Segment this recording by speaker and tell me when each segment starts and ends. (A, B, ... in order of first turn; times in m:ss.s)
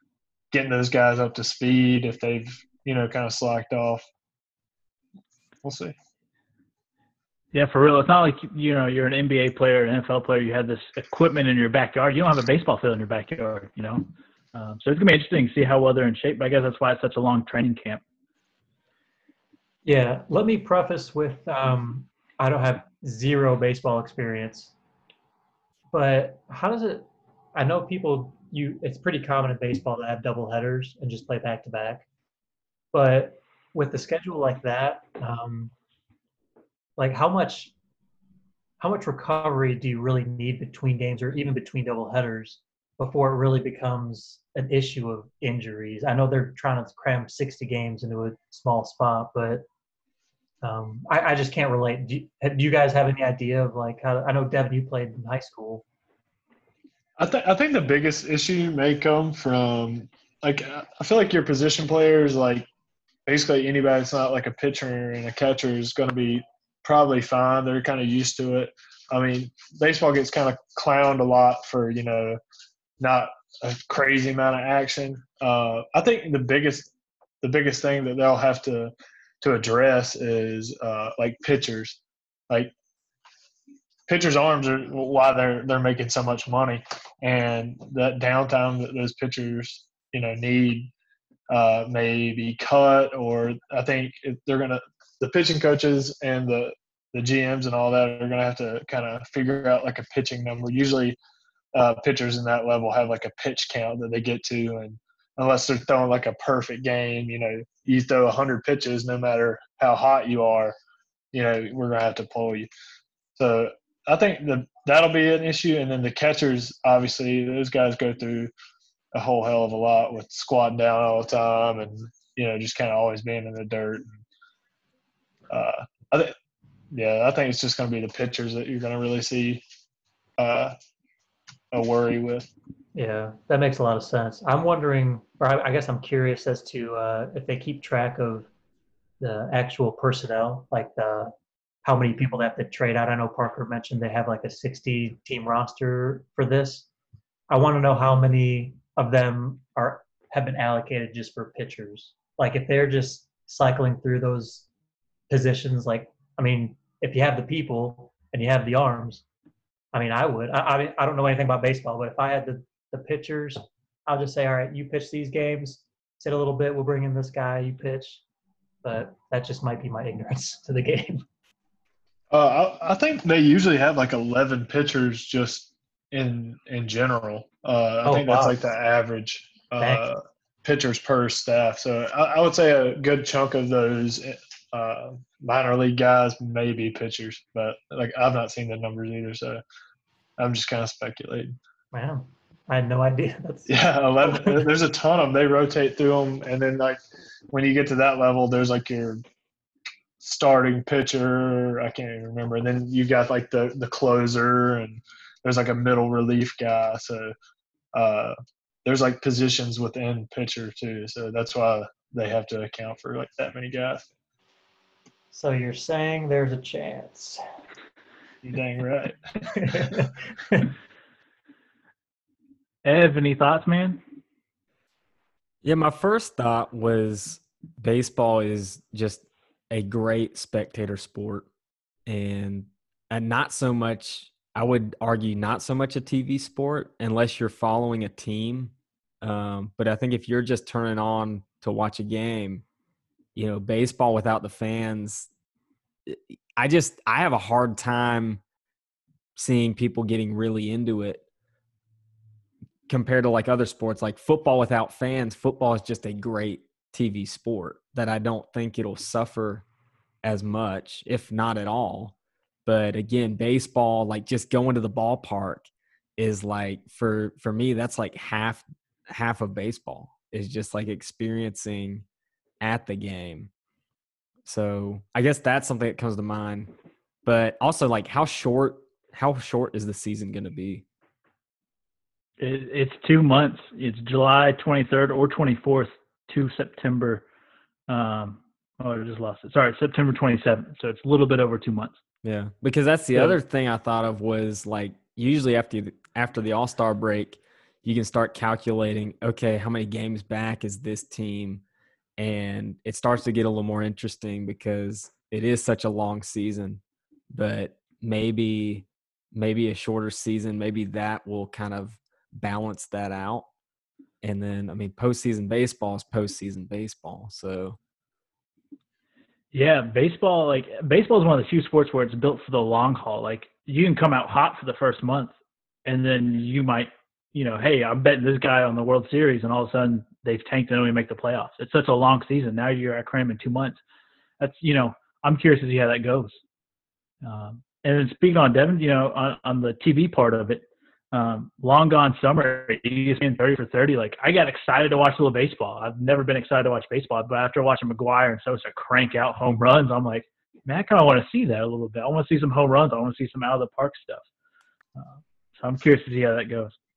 0:00.5-0:04.0 A
0:05.6-0:06.0 A
0:07.5-0:18.0 B
0:19.8-0:24.7 C
0:25.9-0:32.0 C
0:32.9-0:35.7 C
0:37.0-0:37.7 C
0:38.8-0:49.6 C
0:50.6-0:55.8 C
0:57.2-1:02.7 A
1:03.2-1:12.4 A
1:13.0-1:16.9 A
1:17.4-1:22.7 A
1:24.1-1:30.9 A
1:31.5-1:41.2 A
1:41.7-1:50.7 A
1:51.3-1:52.7 A
1:53.4-1:58.5 A
1:59.1-2:04.2 A
2:05.5-2:06.3 A
2:06.9-2:09.6 A
2:10.4-2:10.7 A
2:11.7-2:12.5 A
2:12.9-2:18.5 C
2:19.2-2:21.3 C
2:21.8-2:26.9 C
2:27.5-2:34.7 C
2:35.3-2:39.2 C
2:39.9-2:48.2 C
2:48.8-2:51.2 C
2:52.3-3:09.6 A
2:58.0-2:58.6 C
2:59.8-3:00.0 C
3:10.4-3:11.6 A
3:11.9-3:14.6 C
3:13.7-3:17.0 A
3:17.5-3:19.2 A
3:20.2-3:27.3 A
3:27.9-3:34.0 A
3:35.3-3:37.4 C
3:38.4-3:39.2 A
3:39.5-3:40.7 C
3:42.8-3:44.0 B
3:45.6-3:51.4 D
3:52.0-4:02.6 D
4:03.3-4:05.3 D
4:06.0-4:08.4 D
4:09.4-4:11.2 D
4:12.9-4:19.6 D
4:20.2-4:22.1 D
4:22.6-4:32.0 D
4:32.6-4:33.5 D
4:34.4-4:36.7 D
4:37.2-4:40.8 D
4:42.4-4:47.2 B
4:47.9-4:52.0 B
4:52.2-5:01.6 D
4:53.1-4:53.4 B
5:02.2-5:13.5 D
5:14.2-5:17.8 D
5:19.5-5:25.3 B
5:25.8-5:33.8 B
5:34.4-5:36.4 B
5:37.2-5:54.2 B
5:55.0-5:56.7 B